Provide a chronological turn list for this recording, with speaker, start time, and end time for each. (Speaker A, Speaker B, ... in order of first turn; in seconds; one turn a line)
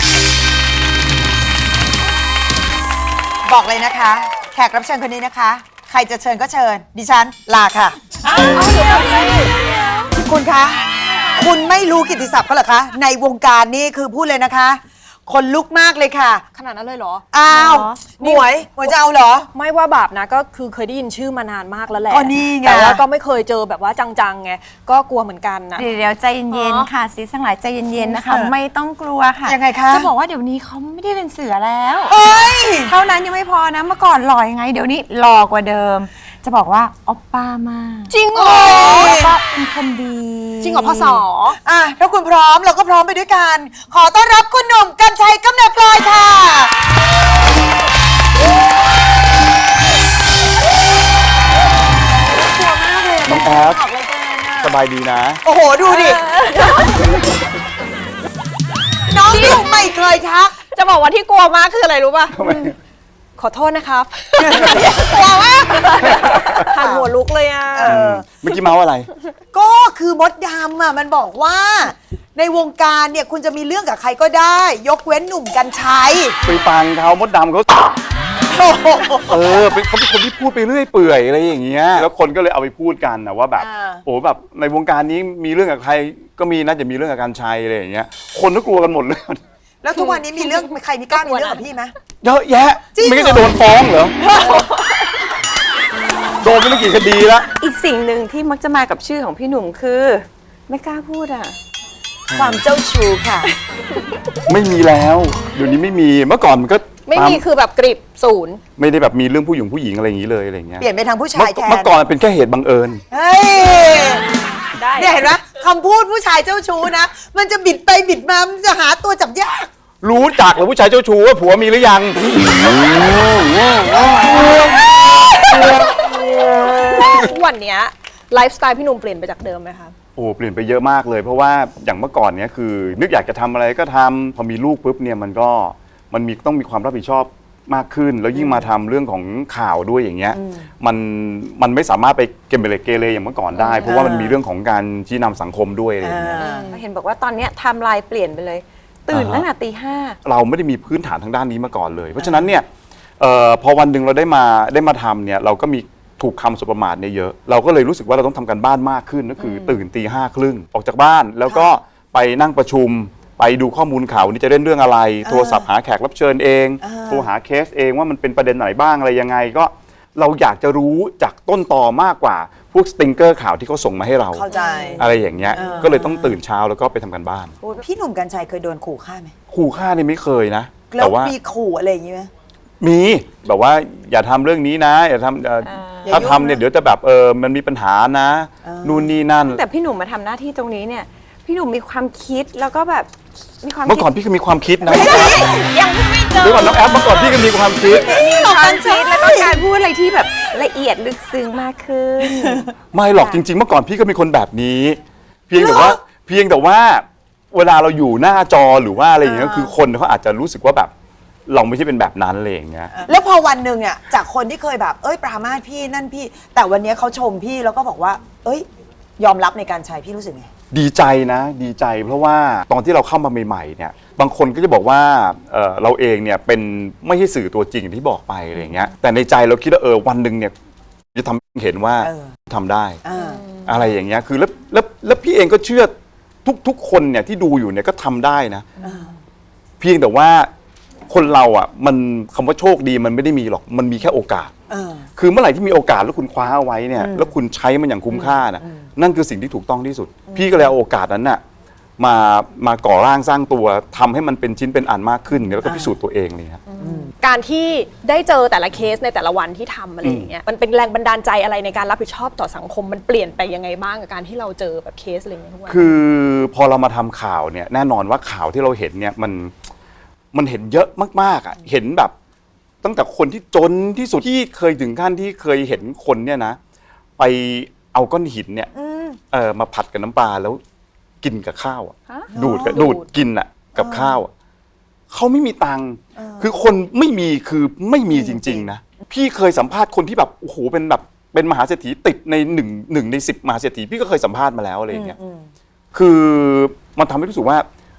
Speaker A: 3.4-8.7
Speaker B: 8.2-10.1
Speaker A: 10.1-10.8
Speaker B: 11.0-11.4
Speaker A: 11.3-16.4
Speaker B: 16.5-18.9
Speaker A: 17.3-19.5
Speaker B: 19.5-26.9
Speaker A: 22.1-23.0
Speaker C: 25.8-38.2
Speaker A: 28.0-28.5
Speaker A: 29.4-30.1
Speaker A: 32.1-32.9
Speaker B: 38.1-39.2
Speaker A: 38.3-39.4
Speaker C: 38.9-41.2
Speaker B: 40.6-41.6
Speaker A: 41.6-46.7
Speaker A: 52.3-54.7
Speaker D: 53.2-53.8
Speaker D: 54.6-55.4
Speaker A: 55.4-56.2
Speaker B: 55.8-57.1
Speaker A: 59.1-60.6
Speaker B: 59.2-59.8
Speaker B: 60.6-62.7
Speaker D: 62.4-62.7
Speaker B: 63.4-68.0
Speaker A: 64.4-67.1
Speaker D: 66.2-66.5
Speaker A: 67.7-68.3
Speaker D: 67.8-69.1
Speaker A: 69.5-76.4
Speaker D: 76.4-78.0
Speaker A: 78.5-79.5
Speaker D: 79.3-89.4
Speaker A: 83.6-84.0
Speaker A: 89.8-91.9
Speaker B: 90.1-91.3
Speaker D: 92.2-94.3
Speaker A: 92.9-93.6
Speaker A: 94.2-94.6
Speaker C: 94.5-95.0
Speaker D: 96.4-97.5
Speaker C: 97.6-101.5
Speaker D: 102.3-102.6
Speaker A: 102.3-103.5
Speaker D: 104.5-107.4
Speaker B: 107.0-108.6
Speaker D: 108.8-113.0
Speaker A: 110.8-112.0
Speaker A: 113.1-114.2
Speaker B: 114.7-115.2
Speaker A: 114.9-119.7
Speaker D: 120.0-124.5
Speaker B: 126.8-129.9
Speaker D: 130.2-146.6
Speaker A: 138.3-138.7
Speaker A: 140.3-140.7
Speaker C: 143.5-143.9
Speaker A: 143.8-144.4
Speaker A: 146.0-146.8
Speaker C: 146.4-150.2
Speaker D: 149.1-149.5
Speaker D: 150.2-152.7
Speaker A: 152.2-152.6
Speaker D: 153.2-177.6
Speaker A: 159.5-159.8
Speaker A: 161.4-161.8
Speaker A: 165.2-165.7
Speaker A: 166.8-167.3
Speaker A: 174.3-176.4
Speaker C: 174.5-174.8
Speaker A: 177.6-179.3
Speaker D: 179.5-181.3
Speaker A: 180.9-182.3
Speaker D: 182.8-189.6
Speaker C: 185.6-186.3
Speaker A: 186.0-186.6
Speaker A: 188.6-189.2
Speaker C: 189.4-193.1
Speaker C: 193.6-194.1
Speaker D: 193.8-195.6
Speaker A: 194.8-199.7
Speaker C: 194.8-196.2
Speaker D: 196.4-198.2
Speaker C: 198.0-203.4
Speaker D: 202.9-210.9
Speaker A: 205.6-205.9
Speaker A: 209.2-209.7
Speaker D: 211.5-213.0
Speaker A: 212.9-218.7
Speaker A: 219.2-220.5
Speaker D: 220.7-230.5
Speaker A: 228.5-228.9
Speaker D: 231.1-233.0
Speaker A: 232.0-232.3
Speaker A: 233.0-233.4
Speaker C: 233.2-233.7
Speaker D: 233.7-235.9
Speaker D: 236.4-238.7
Speaker A: 238.8-239.2
Speaker D: 239.8-240.5
Speaker D: 241.1-244.5
Speaker A: 244.7-245.1
Speaker D: 245.2-251.4
Speaker A: 246.9-247.3
Speaker A: 248.1-248.9
Speaker A: 250.3-250.7
Speaker D: 252.0-256.6
Speaker A: 255.6-255.9
Speaker B: 256.7-265.9
Speaker A: 256.8-257.1
Speaker D: 260.0-260.3
Speaker D: 265.7-269.5
Speaker D: 270.3-272.1
Speaker D: 272.8-276.6
Speaker D: 277.2-278.7
Speaker A: 278.7-279.2
Speaker D: 279.3-280.6
Speaker D: 281.2-284.3
Speaker C: 282.1-282.3
Speaker A: 282.3-282.9
Speaker B: 282.7-283.1
Speaker A: 283.8-284.2
Speaker D: 285.1-295.1
Speaker A: 286.1-286.5
Speaker A: 288.1-288.7
Speaker A: 294.9-295.5
Speaker D: 295.9-297.6